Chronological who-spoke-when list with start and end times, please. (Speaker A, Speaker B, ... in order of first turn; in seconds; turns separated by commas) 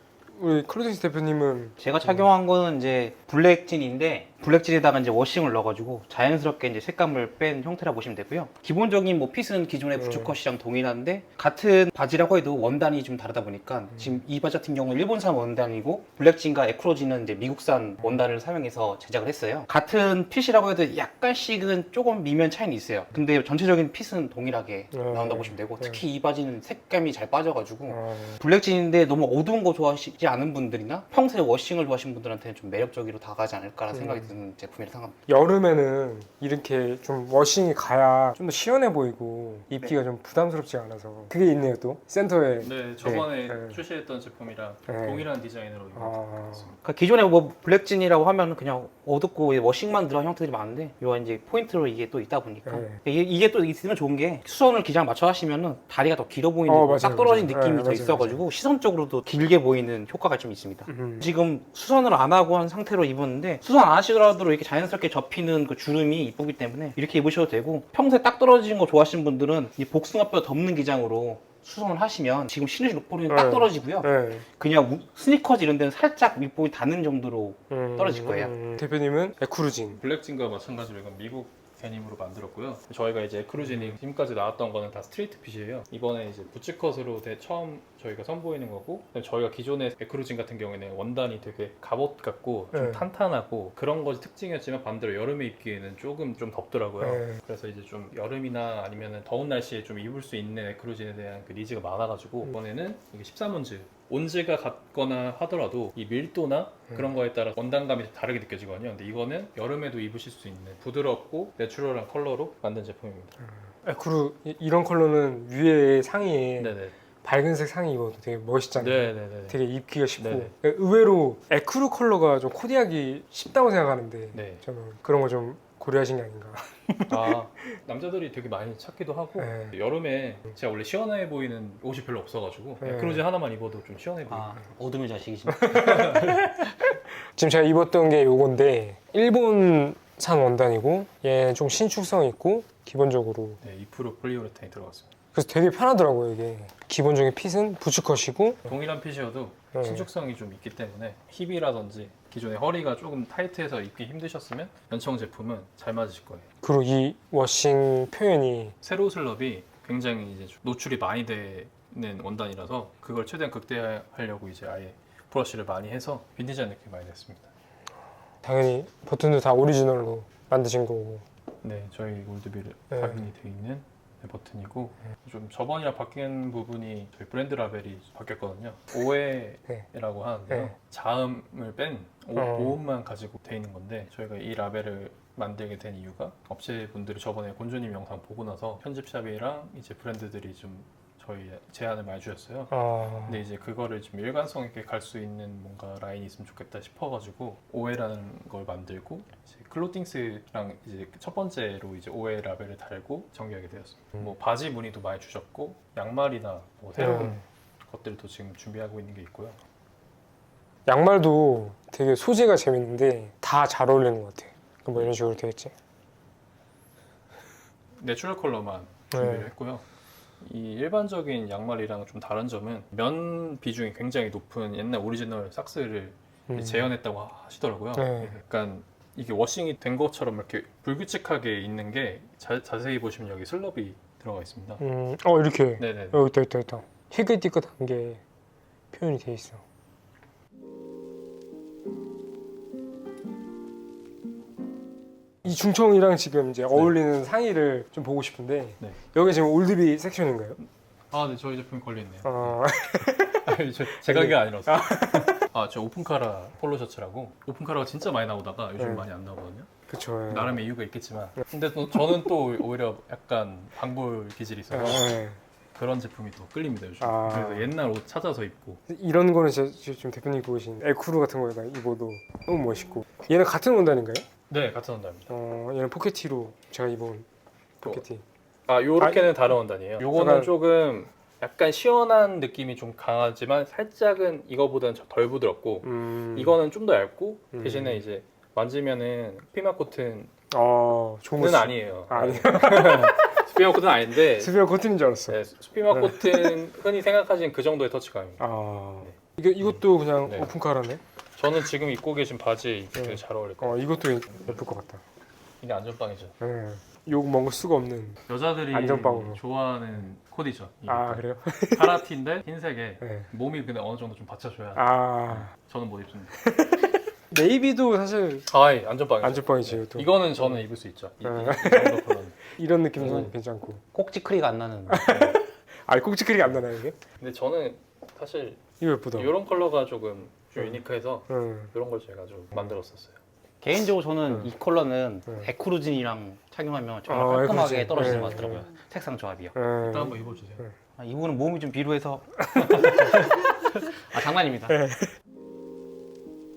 Speaker A: 0.3-2.2, Speaker B: 1.8-35.2, Speaker A: 9.9-10.3, Speaker A: 24.9-26.0, Speaker A: 27.9-28.4, Speaker A: 33.9-34.3, Speaker A: 35.3-43.8, Speaker C: 42.6-46.8, Speaker A: 44.9-45.2, Speaker A: 45.9-46.7, Speaker B: 46.8-78.5, Speaker A: 52.6-53.0, Speaker A: 56.7-58.4, Speaker A: 60.9-61.3, Speaker A: 73.3-74.4, Speaker A: 77.7-80.0, Speaker C: 79.9-113.3, Speaker A: 92.7-93.0, Speaker A: 97.0-97.4, Speaker A: 113.4-127.4, Speaker C: 116.6-116.9, Speaker C: 118.8-119.6, Speaker C: 120.2-120.5, Speaker C: 124.3-124.6, Speaker C: 127.1-134.6, Speaker A: 129.4-129.7, Speaker A: 132.8-133.2, Speaker B: 134.3-136.7, Speaker A: 135.5-136.6, Speaker A: 137.3-143.6, Speaker C: 143.6-145.1, Speaker A: 145.3-148.7, Speaker C: 148.7-156.5, Speaker A: 149.7-150.1, Speaker A: 156.6-158.8, Speaker C: 158.8-167.5, Speaker A: 168.4-171.2, Speaker C: 171.6-192.7, Speaker A: 172.9-173.3, Speaker A: 180.5-180.7, Speaker A: 182.3-182.8, Speaker A: 192.7-193.4, Speaker C: 193.2-209.6, Speaker A: 207.0-207.4, Speaker A: 210.8-215.7, Speaker C: 218.0-219.8, Speaker A: 219.1-219.5, Speaker C: 220.4-234.8, Speaker A: 226.5-226.9, Speaker A: 227.9-228.4, Speaker A: 234.8-238.2, Speaker C: 235.8-236.2, Speaker A: 238.9-239.6, Speaker A: 245.4-250.6, Speaker C: 250.6-252.6, Speaker A: 252.2-253.4, Speaker C: 253.4-259.7, Speaker A: 254.0-255.4, Speaker A: 258.8-259.0, Speaker A: 259.9-260.6, Speaker C: 260.3-265.1, Speaker A: 264.7-265.4, Speaker C: 265.7-268.8, Speaker A: 267.0-267.7, Speaker A: 268.9-274.3, Speaker C: 274.5-275.3, Speaker A: 275.3-277.2, Speaker A: 277.8-278.2, Speaker C: 278.7-290.3, Speaker A: 279.0-279.3, Speaker A: 280.1-280.5, Speaker A: 285.8-286.6, Speaker A: 287.5-288.0, Speaker A: 290.5-293.4, Speaker C: 291.4-294.6, Speaker A: 294.4-295.4, Speaker C: 295.3-298.4, Speaker A: 295.9-296.6, Speaker A: 298.4-301.0, Speaker C: 299.0-300.5, Speaker C: 301.4-304.6, Speaker A: 302.9-305.0, Speaker C: 305.6-306.3, Speaker A: 306.4-308.2, Speaker C: 308.3-316.4, Speaker A: 308.7-309.4, Speaker A: 310.9-312.0, Speaker A: 313.0-313.3, Speaker A: 314.8-315.5, Speaker A: 316.4-318.5, Speaker C: 318.5-322.4, Speaker A: 319.2-320.6, Speaker A: 321.2-323.8, Speaker C: 322.9-323.3, Speaker B: 323.9-325.4, Speaker A: 324.9-326.9, Speaker C: 327.2-328.6, Speaker A: 328.8-329.3, Speaker C: 329.1-333.2, Speaker A: 331.3-331.7, Speaker B: 333.6-339.6, Speaker A: 337.1-338.6, Speaker A: 339.5-340.7, Speaker C: 339.8-340.6, Speaker B: 341.0-344.8, Speaker A: 342.5-343.3, Speaker A: 344.7-345.1